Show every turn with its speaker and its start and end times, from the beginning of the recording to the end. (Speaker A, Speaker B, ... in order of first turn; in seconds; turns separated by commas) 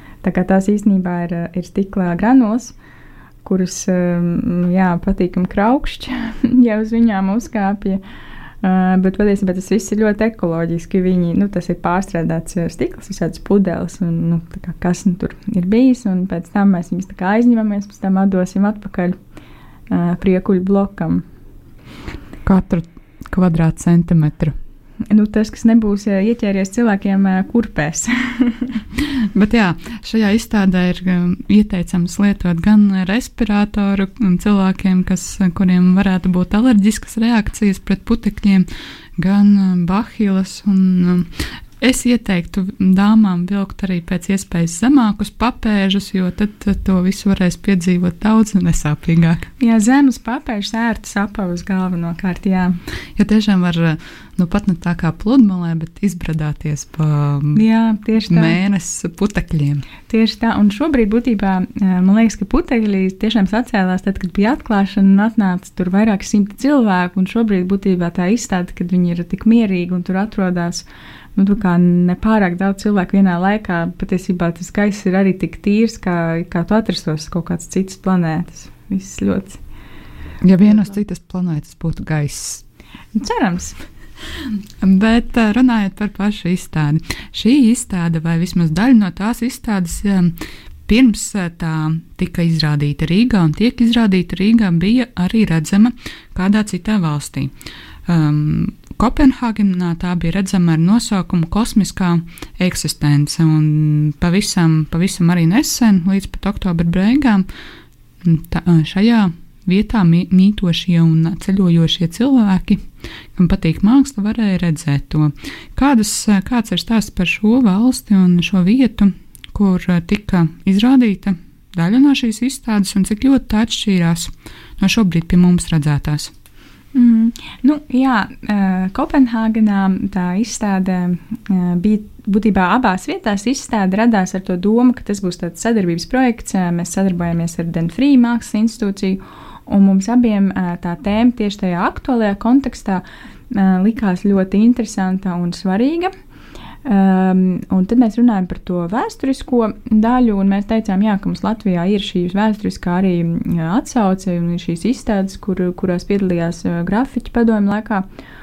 Speaker A: 0.2-2.7, Speaker A: 3.4-8.0, Speaker A: 8.6-19.1, Speaker A: 19.9-21.2, Speaker B: 22.4-24.5, Speaker A: 25.1-28.8, Speaker B: 29.1-49.5, Speaker A: 49.6-52.8, Speaker B: 53.1-57.6, Speaker A: 57.5-58.6, Speaker B: 58.3-59.9, Speaker A: 60.1-70.8, Speaker A: 71.4-79.6, Speaker B: 80.4-82.6, Speaker A: 83.1-83.8, Speaker B: 84.8-90.3, Speaker B: 90.9-97.5, Speaker B: 98.0-107.5, Speaker B: 108.2-126.3, Speaker A: 126.9-146.1, Speaker A: 146.8-158.0